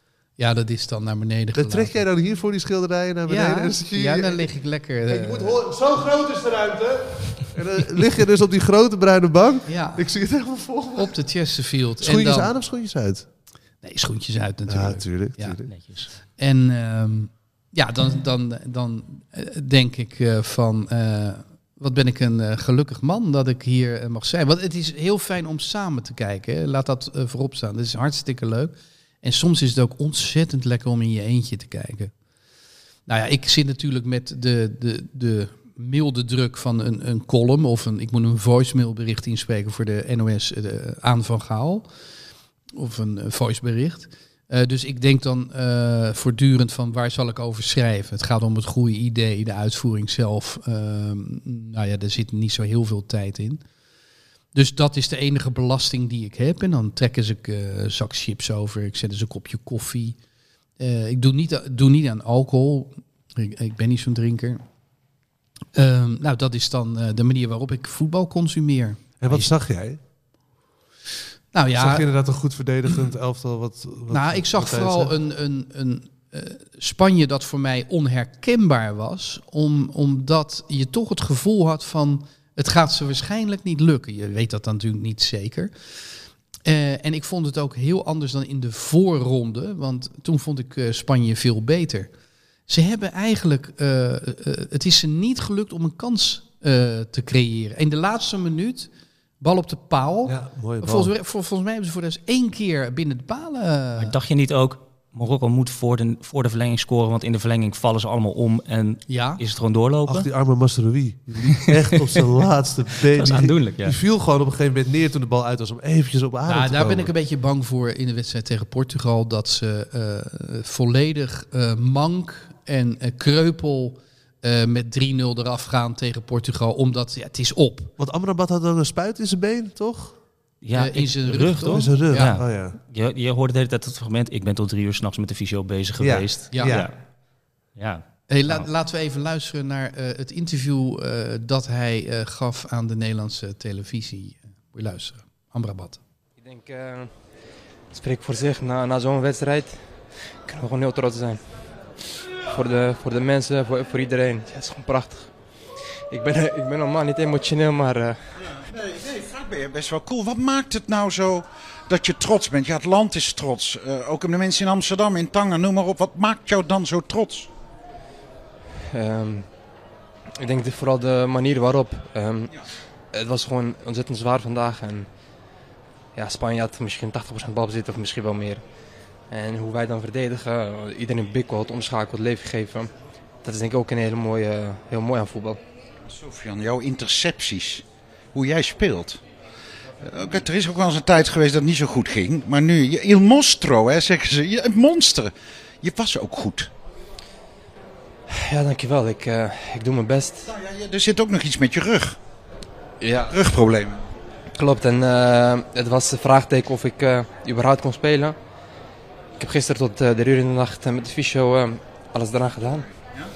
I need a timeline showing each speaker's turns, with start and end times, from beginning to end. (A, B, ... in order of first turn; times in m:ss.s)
0:00.4-0:02.0 A
0:01.6-0:04.5 B
0:03.2-0:05.6 A
0:05.1-0:11.1 B
0:09.7-0:10.2 A
0:10.9-0:12.5 A
0:12.0-0:13.2 B
0:13.8-0:32.1 A
0:14.7-0:15.7 B
0:15.7-0:16.1 C
0:33.1-0:41.9 A
0:42.7-0:53.6 A
0:54.5-1:00.2 A
1:00.8-1:04.6 A
1:05.7-1:09.5 A
1:09.2-1:10.0 B
1:11.5-1:12.1 A
1:11.7-1:15.1 B
1:14.1-1:32.1 A
1:32.7-1:44.1 A
1:40.2-1:41.1 B
1:44.0-1:50.3 C
1:49.1-1:49.4 A
1:50.0-1:57.1 B
1:51.5-1:51.9 C
1:53.1-1:54.0 C
1:56.4-2:07.9 A
2:08.0-2:10.2 B
2:10.6-2:18.7 C
2:10.7-2:12.3 A
2:11.7-2:12.8 B
2:16.0-2:16.9 B
2:16.5-2:16.8 A
2:18.3-2:26.0 A
2:26.4-2:27.2 D
2:27.9-2:31.5 D
2:32.4-2:38.5 D
2:38.6-2:47.5 E
2:48.9-2:49.6 D
2:50.4-2:52.6 D
2:53.1-2:55.1 D
2:56.1-3:05.6 D
3:06.0-3:09.2 E
3:10.0-3:16.7 E
3:18.3-3:20.5 D
3:20.5-3:22.2 E
3:23.0-3:23.3 D
3:23.3-3:24.0 E
3:24.5-3:28.4 D
3:29.4-3:32.9 D